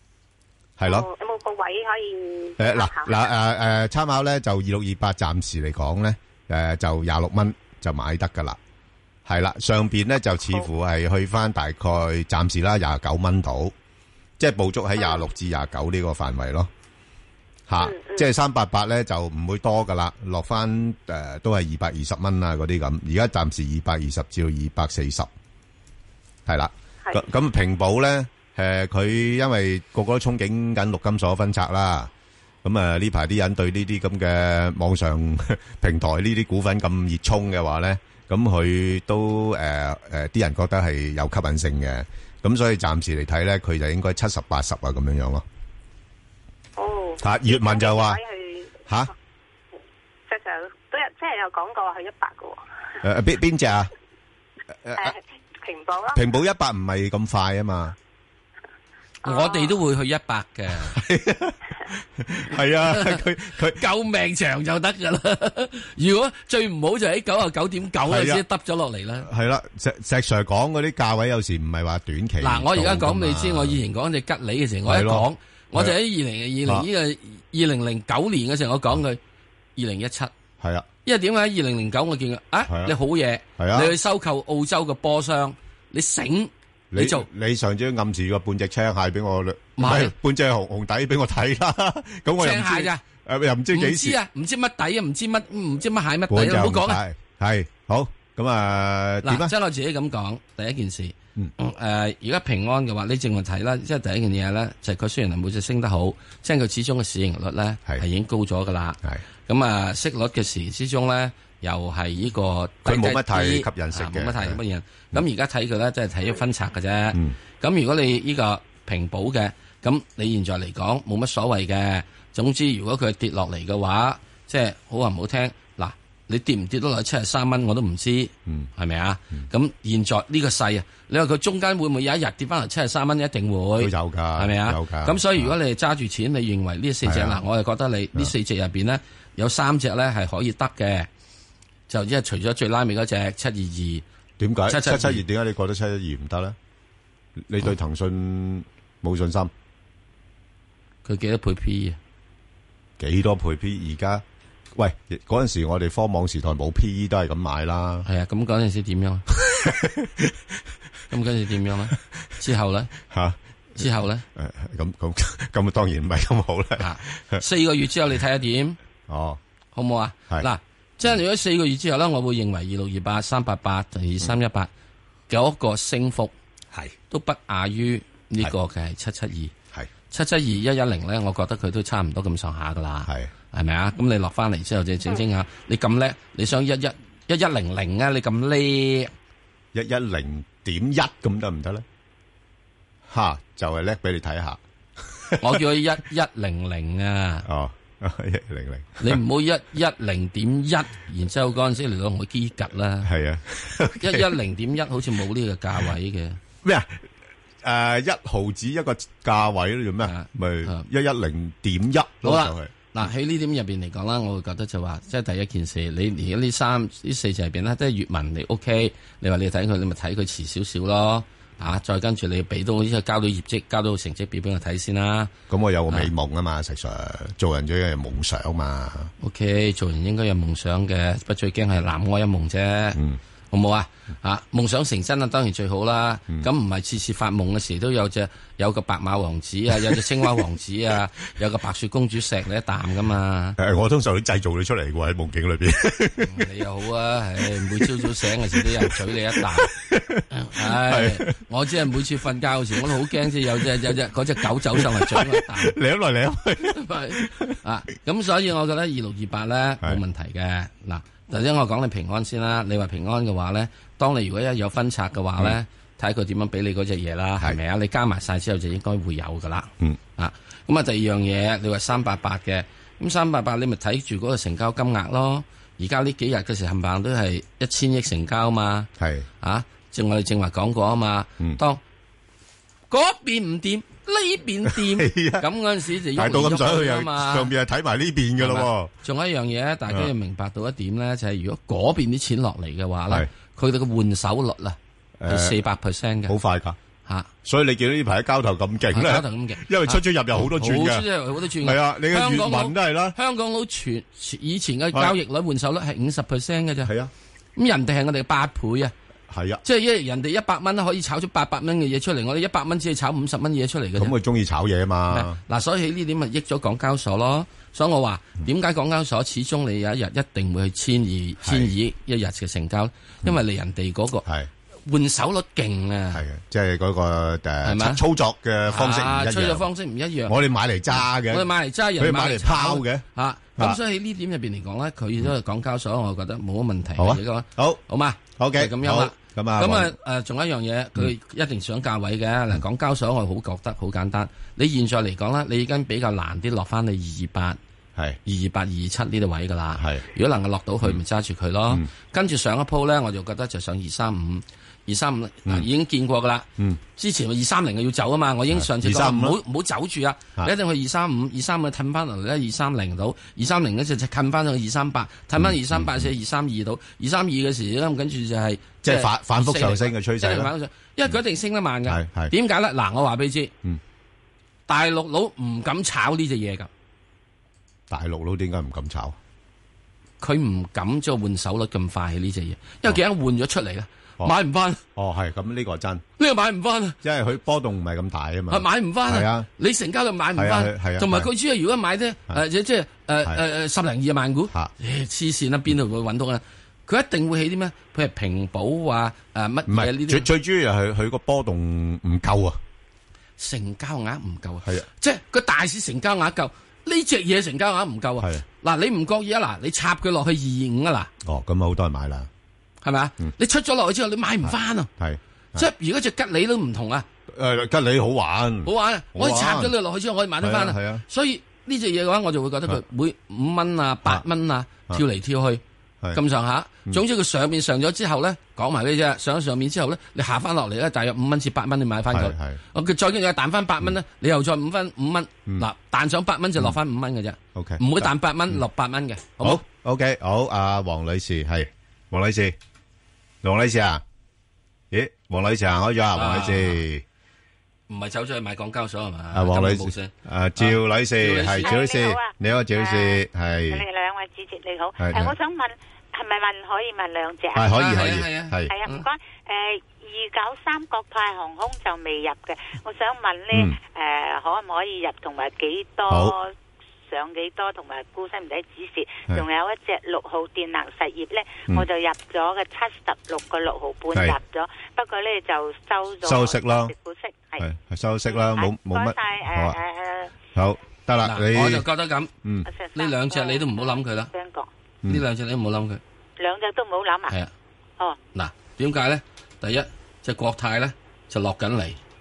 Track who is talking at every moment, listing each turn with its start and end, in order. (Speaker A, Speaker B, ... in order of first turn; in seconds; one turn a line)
Speaker A: 0.8-1.1
Speaker B: 0.8-3.3
Speaker A: 2.6-8.6
Speaker A: 9.2-13.7
Speaker A: 14.4-16.7
Speaker A: 17.7-25.3
Speaker B: 17.8-18.3
Speaker A: 26.4-32.1
Speaker A: 32.6-45.4
Speaker B: 46.8-48.8
Speaker A: 47.2-48.2
Speaker B: 50.3-52.6
Speaker A: 53.0-53.9
Speaker A: 54.8-55.1
Speaker B: 54.9-56.2
Speaker A: 56.1-58.0
Speaker B: 59.2-59.8
Speaker C: 59.2-61.0
Speaker A: 60.8-63.8
Speaker C: 62.8-69.3
Speaker A: 68.0-68.4
Speaker A: 69.2-73.8
Speaker C: 72.4-79.2
Speaker A: 74.8-76.0
Speaker C: 79.8-80.3
Speaker A: 80.6-80.9
Speaker C: 81.0-87.3
Speaker A: 82.7-83.0
Speaker A: 83.6-83.9
Speaker A: 86.9-94.2
Speaker C: 89.8-90.1
Speaker C: 92.4-93.0
Speaker C: 93.7-97.0
Speaker A: 96.3-99.5
Speaker C: 99.2-141.1
Speaker A: 112.8-114.6
Speaker A: 133.8-135.5
Speaker A: 137.0-137.4
Speaker C: 141.9-144.0
Speaker A: 144.4-146.6
Speaker C: 144.7-145.2
Speaker A: 147.4-149.5
Speaker C: 151.0-152.0
Speaker A: 153.0-154.2
Speaker A: 154.7-158.1
Speaker C: 158.0-159.2
Speaker A: 159.3-160.4
Speaker C: 161.1-162.9
Speaker A: 163.0-167.4
Speaker C: 163.8-164.2
Speaker C: 166.8-168.8
Speaker A: 169.1-169.4
Speaker C: 169.7-174.7
Speaker C: 175.3-176.3
Speaker C: 177.1-179.5
Speaker C: 180.1-189.1
Speaker A: 183.1-183.3
Speaker A: 189.7-191.8
Speaker A: 193.1-195.6
Speaker C: 195.4-197.4
Speaker A: 197.4-199.2
Speaker C: 199.0-203.1
Speaker A: 203.0-204.3
Speaker C: 204.0-206.4
Speaker A: 206.6-207.1
Speaker A: 207.6-212.7
Speaker C: 210.0-210.9
Speaker C: 212.2-225.3
Speaker A: 225.5-229.1
Speaker C: 229.2-233.0
Speaker C: 233.5-243.6
Speaker A: 243.6-246.4
Speaker C: 246.2-249.7
Speaker A: 247.5-251.4
Speaker C: 250.3-255.8
Speaker A: 252.7-253.9
Speaker A: 254.6-257.6
Speaker C: 256.7-278.9
Speaker A: 279.0-279.3
Speaker C: 279.4-281.8
Speaker C: 282.9-287.5
Speaker A: 284.6-285.5
Speaker A: 286.1-288.9
Speaker C: 288.4-296.4
Speaker A: 295.2-295.6
Speaker A: 296.3-296.8
Speaker A: 297.4-303.1
Speaker C: 298.9-306.9
Speaker A: 306.8-307.1
Speaker C: 307.6-308.9
Speaker A: 309.3-309.6
Speaker C: 309.6-314.1
Speaker A: 314.0-315.4
Speaker C: 315.1-324.2
Speaker A: 321.4-321.7
Speaker C: 324.9-326.2
Speaker A: 326.1-329.7
Speaker C: 327.6-328.0
Speaker C: 328.7-330.4
Speaker A: 330.3-333.0
Speaker C: 330.9-347.6
Speaker A: 337.0-337.8
Speaker A: 338.4-339.9
Speaker C: 348.2-373.5
Speaker A: 349.8-350.0
Speaker A: 358.5-359.4
Speaker A: 365.4-366.1
Speaker A: 368.8-370.5
Speaker A: 371.9-372.3
Speaker C: 374.7-376.7
Speaker A: 377.9-379.1
Speaker C: 380.2-384.8
Speaker A: 384.9-386.0
Speaker C: 386.2-387.0
Speaker A: 387.0-389.5
Speaker C: 388.5-400.3
Speaker A: 390.4-391.3
Speaker A: 399.7-402.6
Speaker C: 403.4-411.1
Speaker A: 411.2-412.3
Speaker C: 412.8-414.9
Speaker A: 414.4-415.7
Speaker C: 415.5-417.1
Speaker A: 417.3-419.7
Speaker C: 418.6-425.6
Speaker A: 420.4-421.0
Speaker C: 426.1-439.6
Speaker A: 432.1-432.6
Speaker A: 437.5-438.6
Speaker A: 439.4-442.6
Speaker A: 443.4-444.0
Speaker A: 444.9-447.0
Speaker C: 446.1-446.8
Speaker C: 447.9-451.8
Speaker A: 449.3-453.8
Speaker D: 451.6-457.8
Speaker A: 455.0-455.3
Speaker A: 457.5-458.7
Speaker C: 457.7-459.0
Speaker D: 458.7-466.5
Speaker A: 463.5-463.8
Speaker A: 466.1-466.3
Speaker D: 467.1-477.6
Speaker A: 476.2-476.9
Speaker A: 477.6-479.8
Speaker D: 478.3-480.3
Speaker A: 480.5-481.9
Speaker C: 481.2-482.3
Speaker D: 482.7-484.7
Speaker C: 482.9-484.3
Speaker C: 485.1-486.0
Speaker D: 486.4-487.4
Speaker C: 488.3-492.0